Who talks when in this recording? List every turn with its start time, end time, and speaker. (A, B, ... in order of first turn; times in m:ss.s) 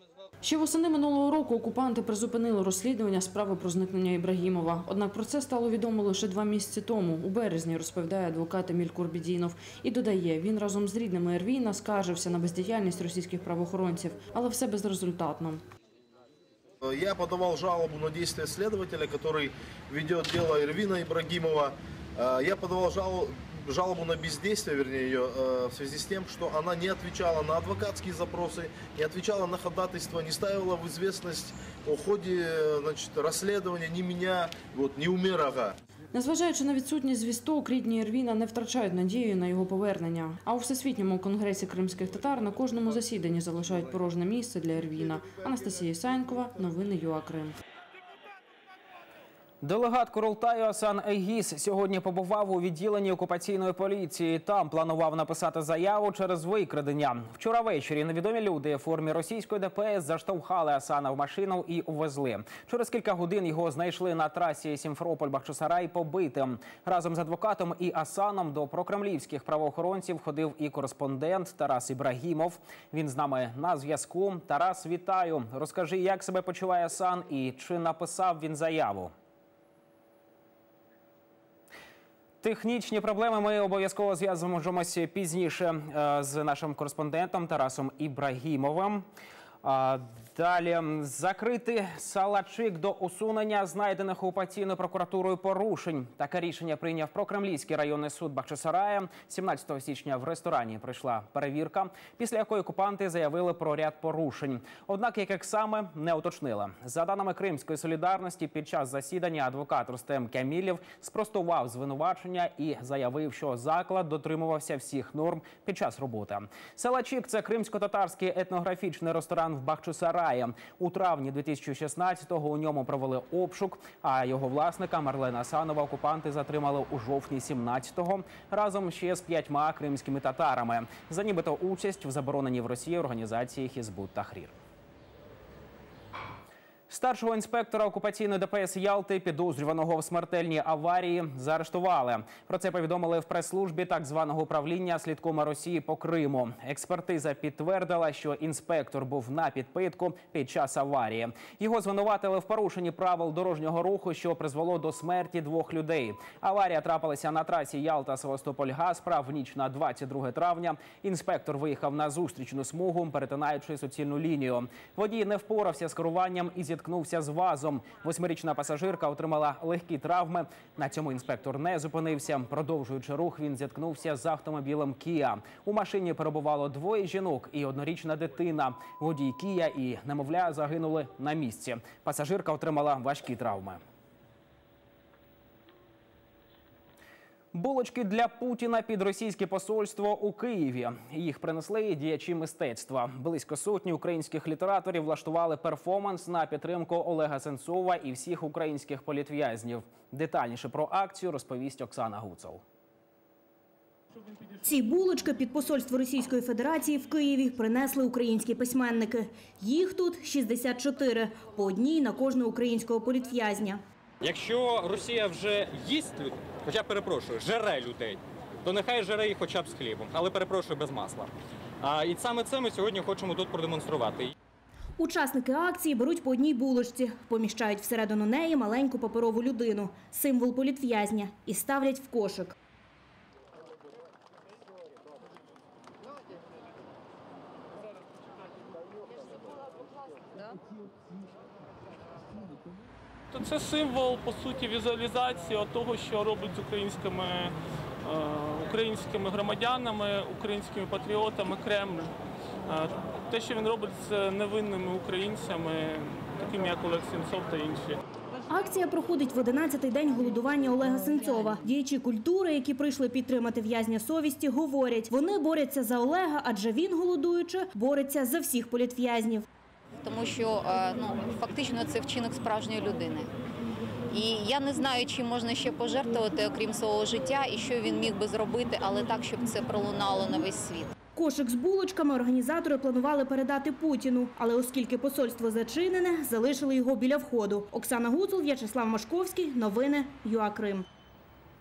0:00.4-0:15.6 A
0:16.8-0:35.8 B
0:36.1-0:47.6 A
0:49.6-1:19.1 C
1:22.4-1:29.0 C
1:29.6-2:14.5 C
2:16.9-3:03.8 C
3:07.5-3:22.6 C
3:24.6-3:33.8 D
3:34.2-3:44.3 E
3:45.0-3:52.5 D
4:03.3-4:07.5 F
4:08.1-4:12.1 F
4:12.7-4:18.0 F
4:18.5-4:29.4 D
4:30.0-4:33.3 G
4:34.1-4:40.9 G
4:41.1-4:50.8 D